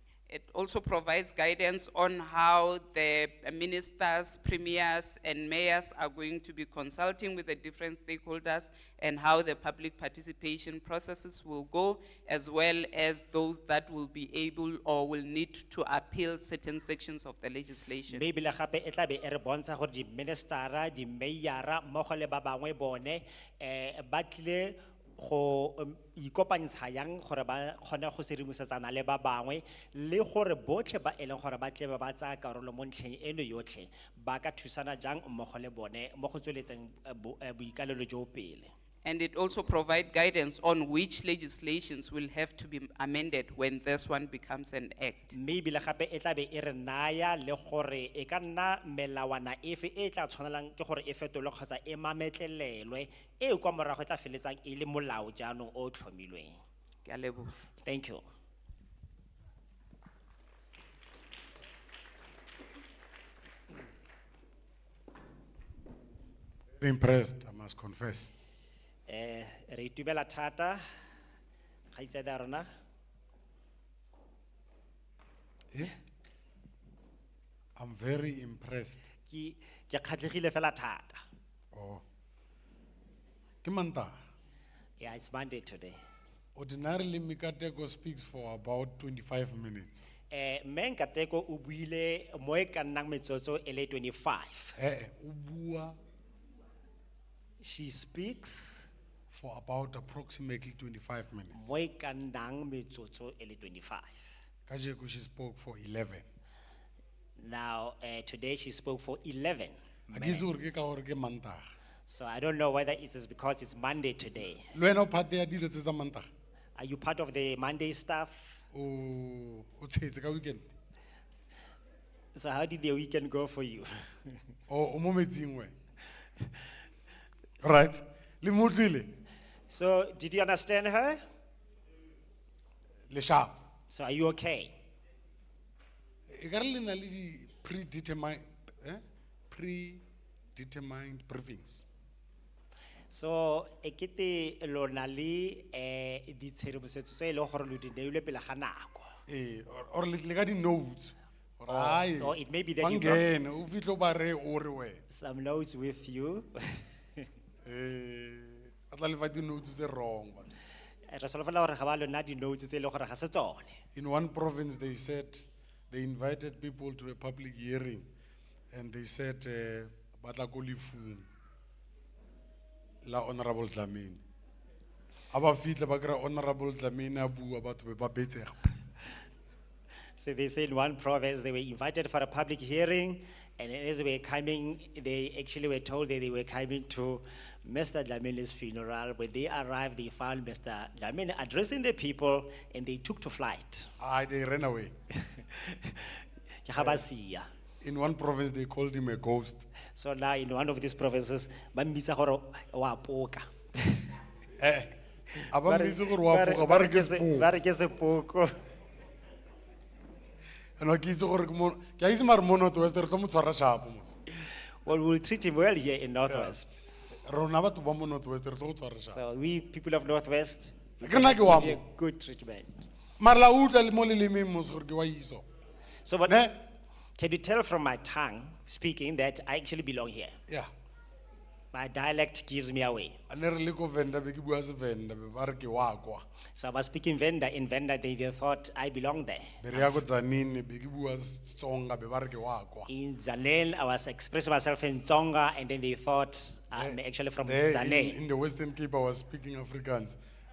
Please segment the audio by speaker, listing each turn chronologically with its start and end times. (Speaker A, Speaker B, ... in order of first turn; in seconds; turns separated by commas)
Speaker A: 0.3-18.2, Speaker B: 18.1-38.7, Speaker A: 39.0-45.3, Speaker B: 45.3-56.6, Speaker A: 57.0-57.5, Speaker B: 57.8-58.2, Speaker C: 66.8-68.3, Speaker B: 69.1-70.8, Speaker B: 71.9-72.7, Speaker C: 77.8-79.0, Speaker B: 79.3-81.2, Speaker C: 81.7-82.0, Speaker C: 83.6-84.2, Speaker B: 85.0-86.0, Speaker C: 86.5-90.1, Speaker B: 90.3-94.8, Speaker C: 94.8-96.0, Speaker B: 97.6-98.9, Speaker C: 99.3-101.6, Speaker B: 101.5-104.3, Speaker C: 104.7-106.2, Speaker B: 107.4-110.7, Speaker C: 110.1-111.6, Speaker B: 112.1-114.7, Speaker C: 114.7-116.3, Speaker B: 116.8-118.6, Speaker C: 118.7-120.7, Speaker B: 122.3-124.4, Speaker C: 124.7-125.7, Speaker C: 127.6-129.1, Speaker B: 129.7-131.2, Speaker C: 133.1-133.6, Speaker B: 133.9-134.8, Speaker C: 136.3-140.0, Speaker C: 140.5-141.8, Speaker B: 143.1-149.1, Speaker C: 149.3-155.0, Speaker B: 151.7-153.3, Speaker B: 155.1-157.2, Speaker C: 157.6-160.5, Speaker B: 161.1-163.8, Speaker C: 163.9-168.1, Speaker C: 168.7-171.3, Speaker C: 173.0-174.2, Speaker C: 175.3-178.8, Speaker B: 180.2-193.9, Speaker C: 194.0-194.9, Speaker B: 195.2-197.5, Speaker C: 197.8-199.6, Speaker B: 199.9-204.0, Speaker C: 204.6-204.9, Speaker C: 205.5-207.5, Speaker B: 205.6-208.5, Speaker C: 210.8-214.1, Speaker B: 214.4-216.8, Speaker C: 216.2-216.6, Speaker C: 217.2-219.2, Speaker B: 219.1-222.7, Speaker C: 221.0-221.8, Speaker C: 223.2-225.4, Speaker B: 226.0-226.4, Speaker C: 226.2-226.5, Speaker B: 227.2-230.3, Speaker B: 231.7-233.2, Speaker C: 233.3-236.2, Speaker B: 236.6-239.9, Speaker C: 239.6-242.9, Speaker B: 242.9-248.2, Speaker C: 246.7-250.2